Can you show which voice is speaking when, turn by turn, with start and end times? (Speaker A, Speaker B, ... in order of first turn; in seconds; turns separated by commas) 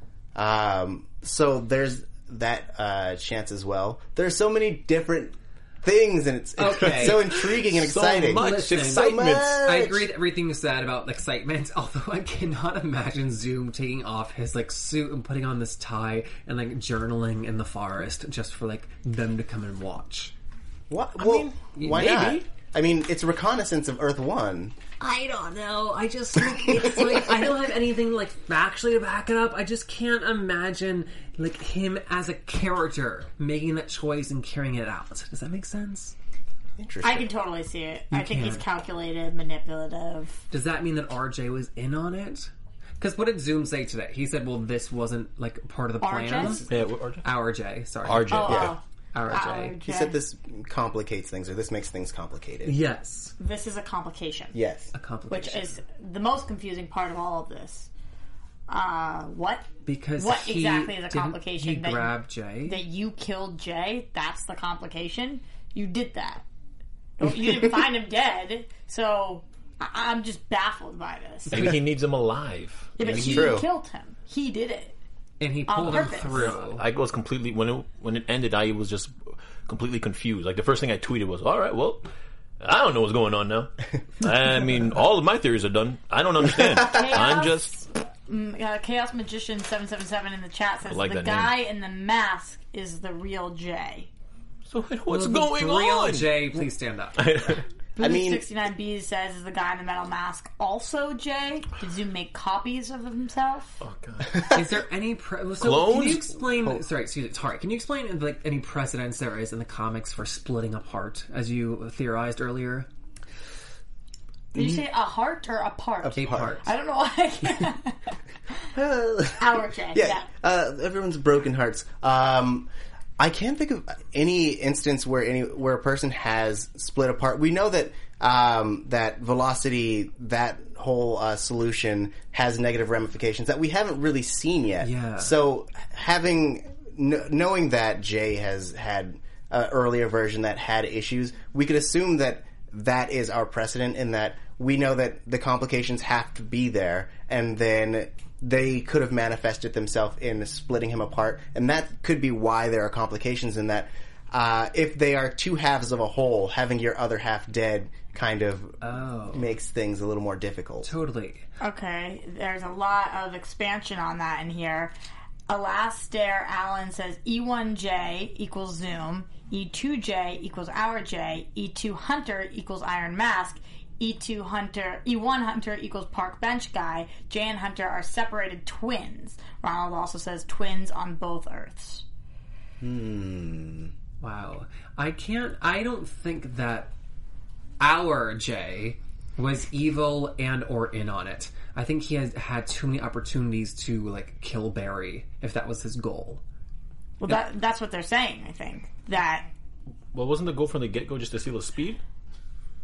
Speaker A: 0.3-10.1, Speaker B: 6.6-7.2, Speaker C: 7.0-9.6, Speaker B: 8.4-20.3, Speaker A: 20.9-24.7, Speaker B: 21.8-22.1, Speaker C: 21.8-22.4, Speaker B: 25.0-36.1, Speaker A: 36.8-37.3, Speaker D: 37.0-40.4, Speaker B: 38.1-38.6, Speaker B: 40.5-46.6, Speaker D: 46.0-46.6, Speaker A: 46.4-46.7, Speaker C: 46.7-47.2, Speaker B: 47.2-49.8, Speaker C: 48.0-48.8, Speaker D: 48.3-50.2, Speaker A: 49.8-52.8, Speaker B: 52.6-53.4, Speaker D: 53.4-54.5, Speaker A: 54.5-54.9, Speaker B: 54.9-55.8, Speaker D: 55.3-57.9, Speaker D: 58.7-66.4, Speaker B: 59.9-62.8, Speaker D: 67.2-71.8, Speaker C: 71.5-73.6, Speaker D: 73.0-75.0, Speaker A: 73.0-73.7, Speaker B: 75.4-76.8, Speaker D: 75.7-76.5, Speaker C: 76.3-79.1, Speaker C: 79.7-82.1, Speaker C: 82.6-87.8, Speaker D: 86.8-94.1, Speaker C: 90.9-91.5, Speaker C: 94.7-96.5, Speaker B: 95.1-97.4, Speaker C: 97.2-97.6, Speaker A: 98.0-98.5, Speaker D: 98.0-103.8, Speaker C: 103.8-104.5, Speaker B: 104.5-112.9, Speaker C: 105.6-106.4, Speaker D: 114.5-118.1, Speaker A: 114.5-114.8, Speaker A: 116.0-116.6, Speaker B: 116.2-116.6, Speaker A: 118.7-158.8, Speaker D: 119.4-120.3, Speaker B: 134.8-135.4, Speaker B: 158.8-159.6, Speaker A: 159.3-160.9, Speaker B: 160.8-161.5, Speaker D: 161.6-164.9, Speaker D: 165.5-182.0, Speaker A: 182.8-183.9, Speaker B: 184.2-186.9, Speaker B: 187.8-196.4, Speaker D: 197.2-199.5, Speaker C: 200.1-202.0